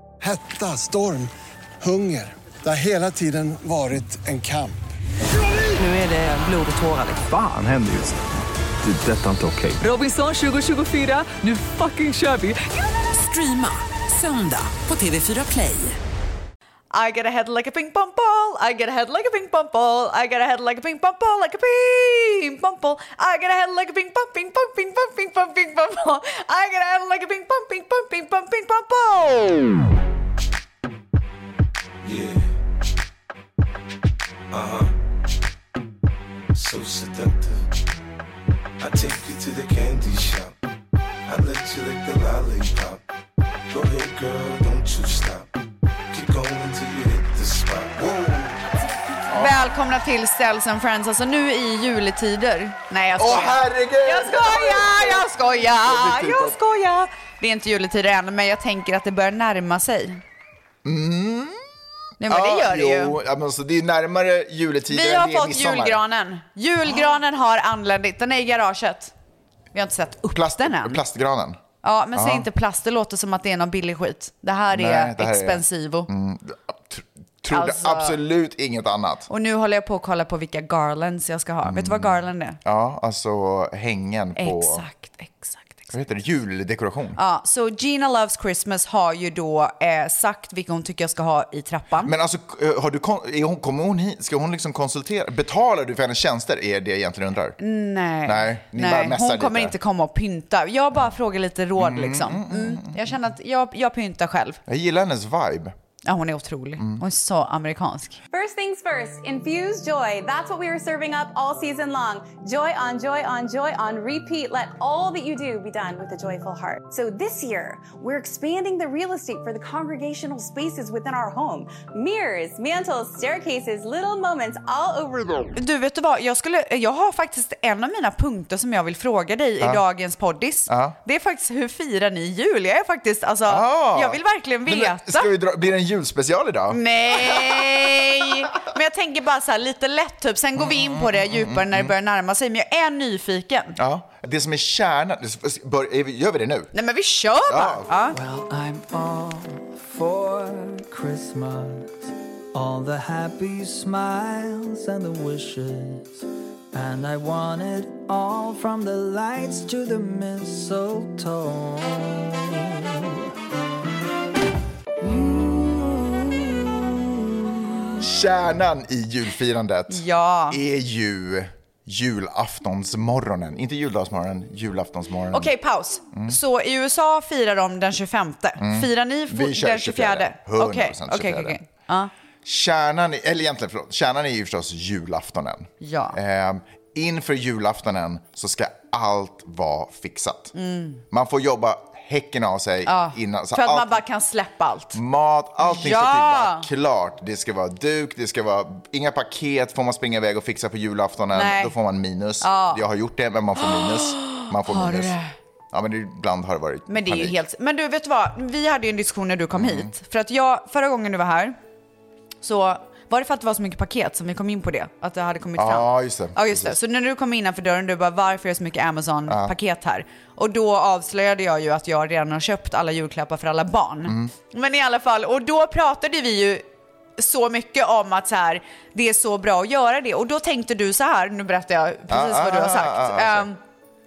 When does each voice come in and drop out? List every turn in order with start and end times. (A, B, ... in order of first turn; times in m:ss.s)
0:00.2-0:04.8 A
0:07.1-0:08.2 B
0:08.8-0:09.8 B
0:09.8-0:16.0 C
0:16.9-0:29.6 D
0:32.0-0:32.5 E
0:34.5-0:34.9 E
0:36.5-0:37.7 E
0:38.8-0:40.5 E
0:41.3-0:43.0 E
0:43.7-0:45.5 E
0:46.1-0:48.7 E
0:49.3-1:00.2 D
0:53.2-0:56.6 F
1:00.8-1:01.6 F
1:02.2-1:03.2 D
1:02.2-1:06.0 F
1:04.9-1:09.1 D
1:09.7-1:11.0 D
1:10.3-1:11.6 F
1:11.8-1:16.1 D
1:12.1-1:12.5 F
1:14.7-1:19.3 F
1:17.5-1:18.2 D
1:19.3-1:22.6 D
1:21.6-1:24.8 F
1:24.4-1:25.9 D
1:25.9-1:27.2 F
1:27.2-1:32.1 D
1:32.0-1:37.6 F
1:37.6-1:44.6 D
1:38.2-1:39.7 F
1:41.8-1:43.2 F
1:44.6-1:45.7 F
1:46.0-1:48.2 D
1:46.8-1:47.0 F
1:48.3-2:05.5 G
2:05.5-2:15.3 D
2:10.7-2:11.0 F
2:13.5-2:18.3 F
2:16.7-2:23.8 D
2:20.6-2:21.9 F
2:23.8-2:26.7 F
2:26.7-2:28.2 D
2:27.5-2:27.9 F
2:28.1-2:43.1 H
2:45.0-2:47.1 H
2:48.0-2:55.5 F
2:49.9-2:50.6 D
2:55.3-3:02.1 D
2:56.1-2:56.4 F
2:58.6-3:01.6 F
3:02.4-3:10.5 F
3:05.8-3:06.2 D
3:10.5-3:11.0 D
3:11.1-3:14.0 F
3:12.9-3:15.0 D
3:14.9-3:25.2 F
3:15.6-3:16.7 D
3:21.3-3:21.7 D
3:22.4-3:22.8 D
3:23.6-3:25.3 D
3:25.7-3:27.4 F
3:26.9-3:31.6 D
3:29.5-3:29.9 F
3:32.4-3:46.6 D
3:35.6-3:36.8 F
3:39.3-3:39.5 F
3:44.1-3:44.3 F
3:47.2-3:53.6 D
3:52.1-3:53.5 F